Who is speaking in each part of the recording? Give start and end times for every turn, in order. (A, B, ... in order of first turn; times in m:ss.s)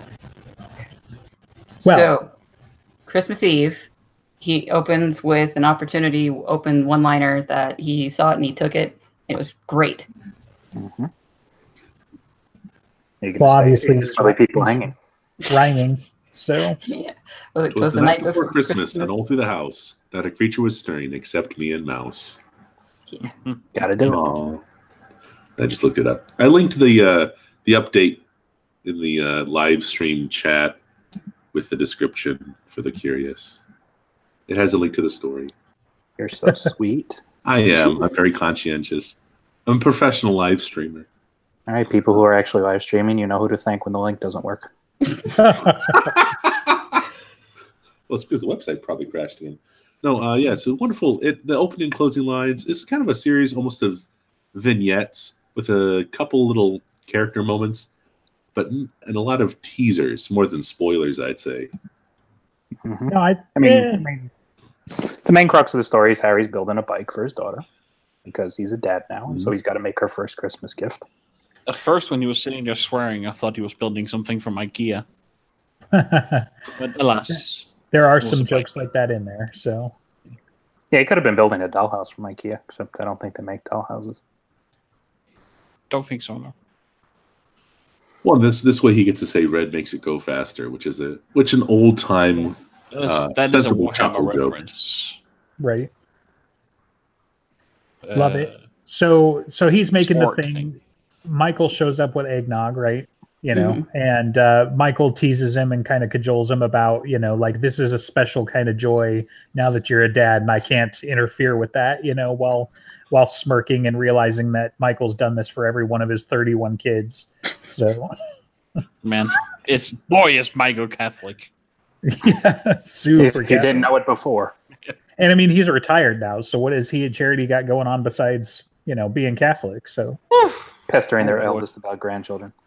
0:01.8-0:02.3 A
0:01.8-0:02.1 B
0:03.0-0:03.9 A
0:04.4-0:10.1 A
0:10.7-0:11.1 C
0:13.2-0:14.9 C
0:13.4-0:14.9 B
0:15.4-0:16.8 B
0:16.8-0:19.2 A
0:17.7-0:22.4 D
0:23.7-0:24.3 C
0:24.0-0:24.6 D
0:25.6-0:28.2 D
0:28.8-0:30.8 D
0:31.5-0:33.6 D
0:34.5-0:35.5 D
0:36.2-0:37.2 C
0:37.4-0:41.1 D
0:41.7-0:45.3 C
0:45.3-0:46.1 B
0:46.1-0:46.8 D
0:48.1-0:57.9 D
0:58.5-1:01.7 D
1:02.8-1:04.3 C
1:03.1-1:04.0 B
1:04.9-1:07.6 C
1:08.2-1:11.0 C
1:11.6-1:15.0 E
1:15.9-1:16.5 B
1:16.8-1:17.7 E
1:17.9-1:19.9 B
1:18.2-1:18.7 E
1:20.9-1:24.2 C
1:25.9-1:26.5 E
1:28.2-1:34.7 D
1:32.9-1:35.2 E
1:35.6-1:35.9 B
1:38.0-1:38.6 E
1:38.1-1:58.1 B
1:40.0-1:40.7 E
1:43.5-1:43.8 A
1:59.0-2:01.5 E
2:02.0-2:03.9 B
2:03.1-2:04.5 C
2:05.2-2:10.2 B
2:10.9-2:12.5 C
2:11.2-2:11.6 E